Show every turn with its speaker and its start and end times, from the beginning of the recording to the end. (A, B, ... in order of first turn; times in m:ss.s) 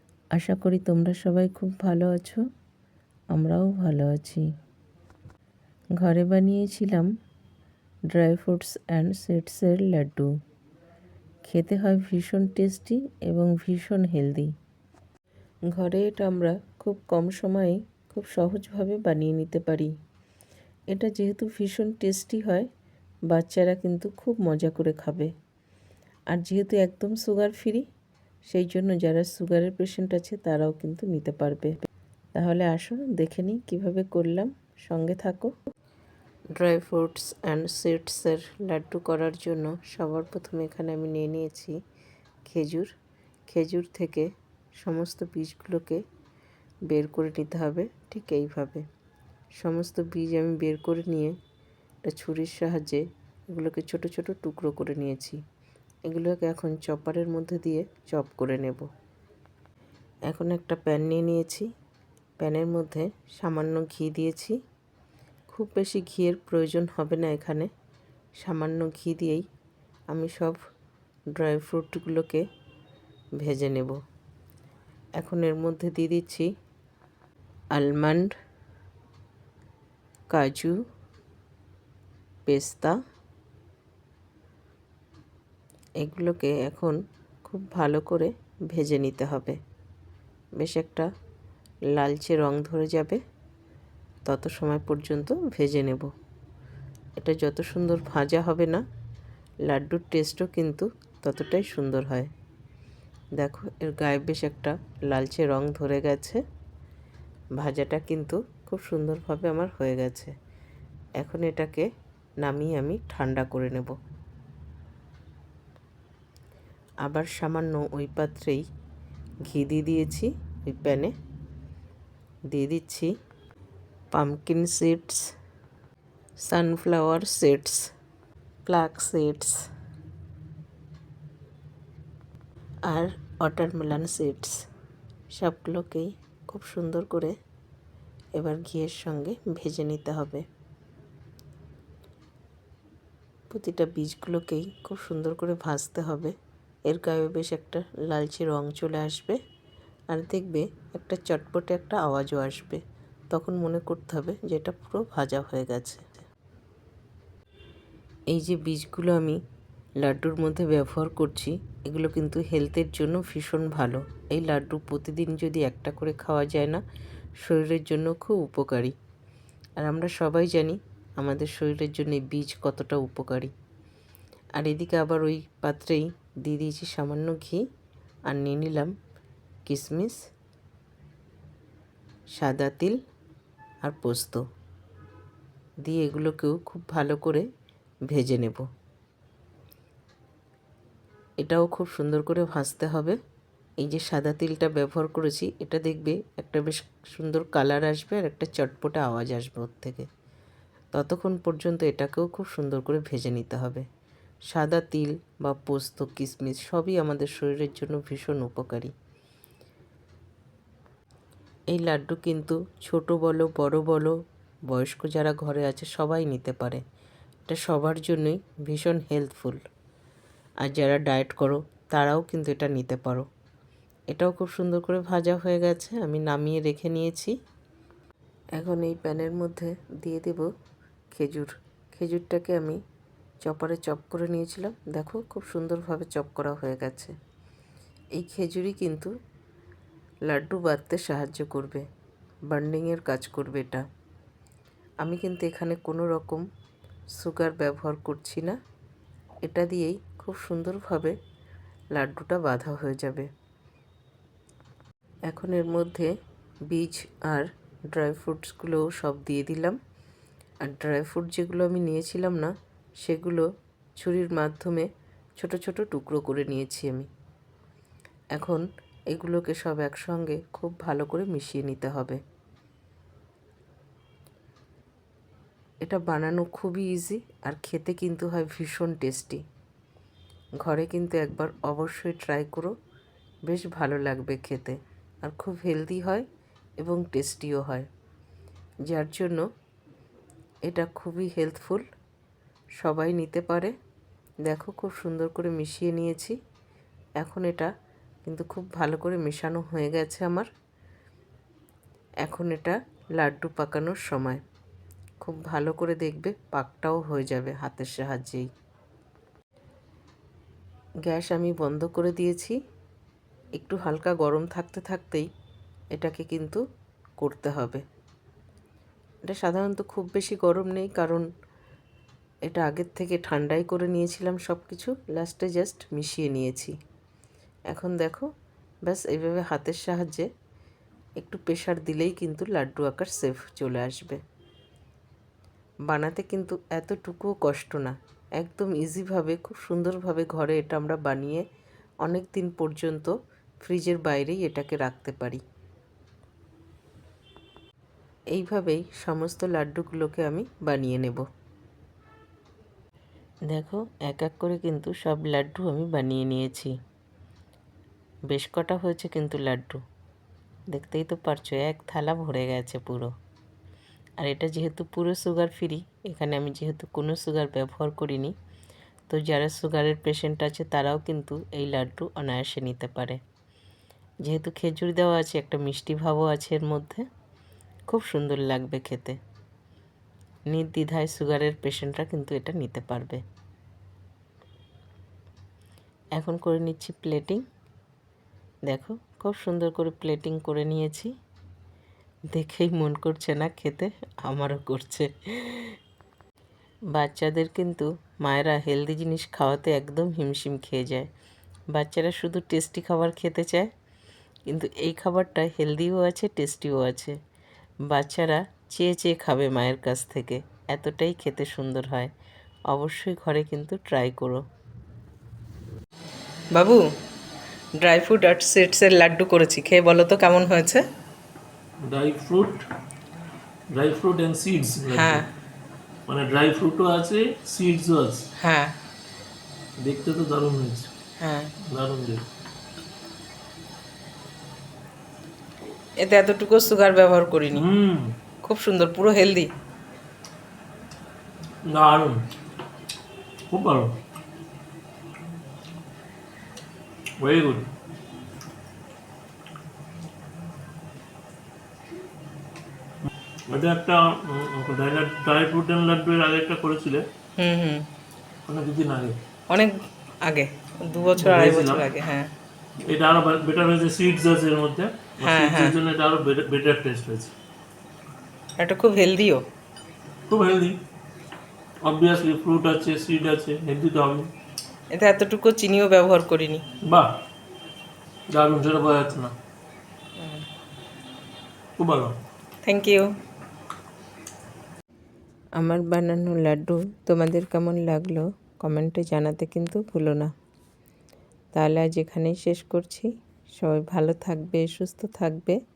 0:00.3-0:02.4 A
0:03.3-0:04.4 A
0:06.0-0:07.1 A
0:08.1-0:10.3 A
0:11.4-0:14.5 A
0:15.7-0:19.9 A
0:20.9-0:22.7 A
0:23.3-0:25.3 A
0:26.3-0:27.8 A
0:28.5-0:31.7 A
0:32.3-0:35.5 A
0:36.6-0:41.8 A
0:42.4-0:42.9 A
0:43.5-0:44.3 A
0:44.8-0:46.0 A
0:46.9-0:48.8 A
0:49.6-0:51.4 A
0:52.0-0:55.4 A
0:56.1-0:58.9 A
1:00.3-1:01.7 A
1:02.4-1:04.6 A
1:05.5-1:07.7 A
1:08.4-1:09.4 A
1:10.1-1:10.6 A
1:11.3-1:12.4 A
1:13.4-1:14.0 A
1:15.2-1:16.5 A
1:17.7-1:18.3 A
1:20.3-1:20.8 A
1:22.5-1:23.0 A
1:26.0-1:29.6 A
1:30.6-1:31.1 A
1:31.9-1:33.2 A
1:34.3-1:36.1 A
1:37.2-1:38.8 A
1:39.7-1:42.3 A
1:43.4-1:46.4 A
1:47.6-1:50.3 A
1:51.2-1:51.9 A
1:52.4-1:53.9 A
1:57.0-1:58.6 A
1:59.5-2:01.1 A
2:02.5-2:03.1 A
2:04.1-2:05.2 A
2:06.4-2:07.9 A
2:08.6-2:09.6 A
2:12.9-2:14.6 A
2:15.3-2:17.4 A
2:18.3-2:20.4 A
2:23.5-2:26.3 A
2:26.9-2:29.4 A
2:30.1-2:36.2 A
2:38.3-2:39.4 A
2:40.0-2:46.8 A
2:47.4-2:48.9 A
2:49.8-2:53.5 A
2:54.6-2:57.6 A
2:58.3-2:58.9 A
2:59.7-3:00.2 A
3:02.4-3:03.0 A
3:03.8-3:04.4 A
3:05.8-3:07.5 A
3:08.1-3:08.6 A
3:11.4-3:13.2 A
3:13.8-3:20.1 A
3:20.9-3:23.8 A
3:24.5-3:28.9 A
3:31.7-3:34.2 A
3:34.7-3:36.8 A
3:37.5-3:39.6 A
3:40.6-3:43.2 A
3:44.1-3:47.3 A
3:48.6-3:50.5 A
3:51.1-3:52.8 A
3:53.4-3:57.1 A
3:58.2-3:59.1 A
4:00.3-4:01.8 A
4:02.5-4:03.8 A
4:05.0-4:06.4 A
4:07.2-4:08.6 A
4:09.4-4:11.2 A
4:11.9-4:13.3 A
4:15.3-4:16.1 A
4:16.7-4:19.8 A
4:20.6-4:23.4 A
4:24.0-4:27.1 A
4:28.3-4:32.2 A
4:35.8-4:39.4 A
4:40.6-4:42.7 A
4:43.5-4:46.2 A
4:46.8-4:47.9 A
4:48.9-4:49.4 A
4:50.6-4:51.8 A
4:52.8-4:53.7 A
4:54.4-4:56.4 A
4:57.2-4:57.7 A
4:58.2-5:00.5 A
5:02.2-5:04.4 A
5:05.2-5:08.5 A
5:11.0-5:12.6 A
5:13.6-5:15.3 A
5:15.9-5:16.6 A
5:17.2-5:17.8 A
5:19.3-5:21.2 A
5:22.4-5:26.8 A
5:27.7-5:28.3 A
5:28.8-5:30.3 A
5:31.2-5:34.2 A
5:35.9-5:41.4 A
5:42.0-5:45.4 A
5:48.3-5:51.2 A
5:53.5-5:56.7 A
5:58.3-5:59.8 A
6:00.7-6:03.1 A
6:04.2-6:08.3 A
6:09.1-6:13.2 A
6:14.2-6:17.0 A
6:17.9-6:19.2 A
6:20.5-6:23.2 A
6:26.2-6:27.4 A
6:28.7-6:31.1 A
6:32.3-6:35.7 A
6:36.9-6:41.1 A
6:41.7-6:43.7 A
6:44.5-6:47.2 A
6:47.9-6:52.1 A
6:52.7-6:54.4 A
6:56.6-6:56.8 A
6:57.8-7:00.8 A
7:01.8-7:02.6 B
7:03.7-7:05.2 B
7:04.9-7:05.3 A
7:06.1-7:08.2 B
7:08.4-7:08.7 A
7:09.8-7:10.9 B
7:11.2-7:11.5 A
7:11.7-7:12.2 B
7:16.0-7:17.6 A
7:17.5-7:18.1 B
7:18.4-7:19.5 A
7:21.7-7:22.2 B
7:23.5-7:24.0 B
7:27.2-7:27.7 B
7:33.5-7:37.0 B
7:37.4-7:37.8 A
7:38.5-7:39.2 B
7:40.3-7:42.3 A
7:41.2-7:41.8 B
7:42.8-7:47.3 B
7:45.2-7:45.8 A
7:48.6-7:49.4 A
7:50.3-7:50.8 B
7:51.8-7:54.3 B
7:54.9-7:56.6 A
7:56.8-7:57.1 B
7:58.3-7:59.3 B
8:00.2-8:00.4 A
8:01.8-8:02.2 B
8:02.6-8:03.1 A
8:05.6-8:10.3 A
8:11.5-8:13.1 A
8:13.6-8:15.6 A